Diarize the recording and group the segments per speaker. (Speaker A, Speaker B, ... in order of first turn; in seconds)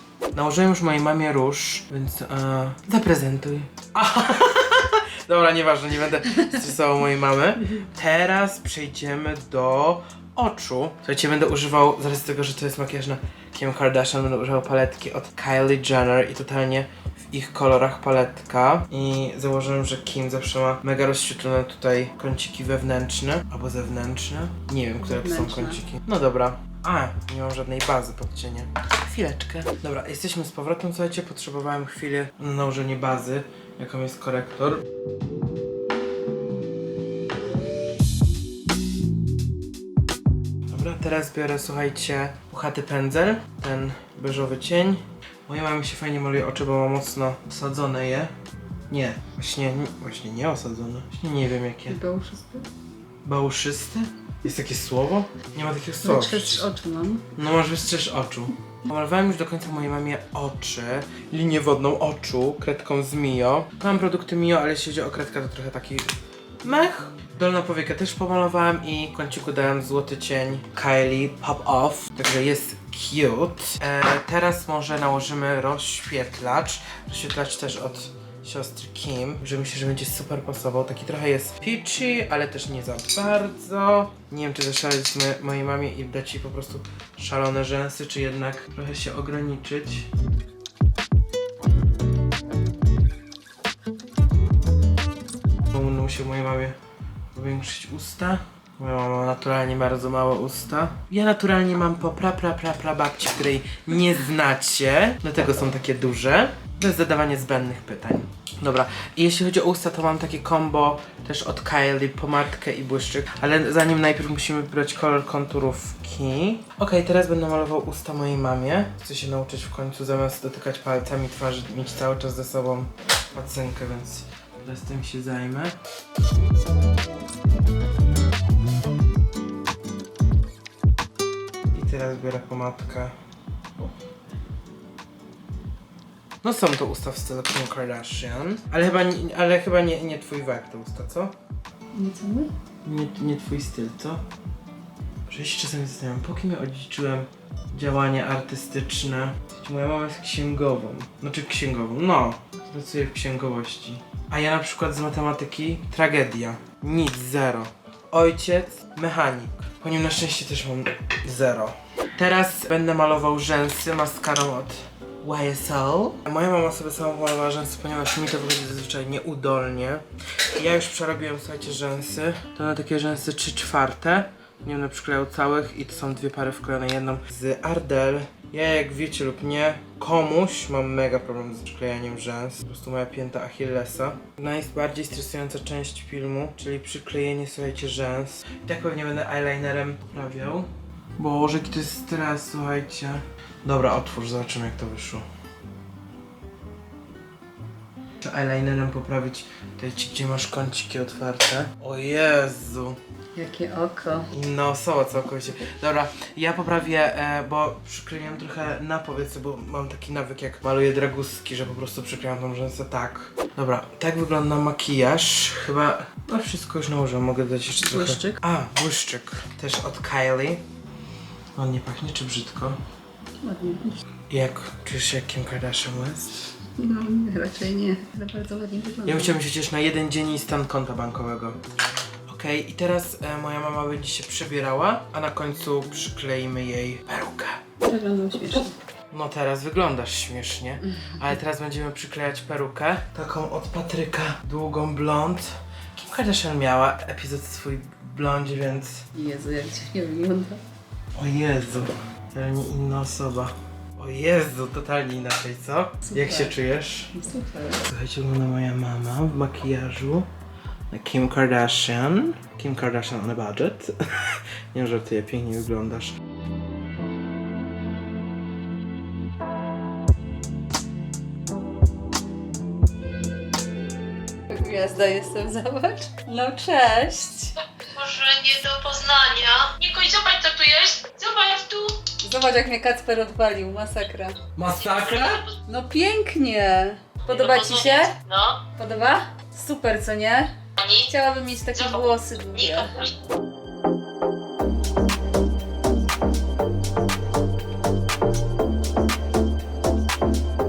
Speaker A: 0.3-34.8, 40.7-48.3, 48.9-52.0, 53.2-56.7, 57.3-66.1, 66.6-90.1, 95.7-96.7, 97.3-125.7, 131.7-133.1, 136.4-141.3, 142.8-144.2, 145.3-195.2, 198.2-203.0, 204.3-220.6, 221.5-222.8, 224.3-226.3, 229.1-231.6, 232.3-237.6, 239.1-249.1, 251.2-257.1, 257.8-260.3, 260.9-266.1, 284.6-285.5
Speaker B: 25.0-25.8, 51.9-52.7, 56.0-57.2, 141.9-142.5, 203.3-204.3, 217.8-218.4, 223.4-224.0, 226.8-229.4, 237.8-238.7, 240.9-241.2, 249.1-250.6, 256.1-256.5, 257.1-257.8, 274.5-277.5, 282.2-284.5, 285.1-288.2, 288.8-293.0
Speaker C: 277.9-282.0, 284.7-285.6, 287.3-288.6, 290.8-291.1, 291.7-293.1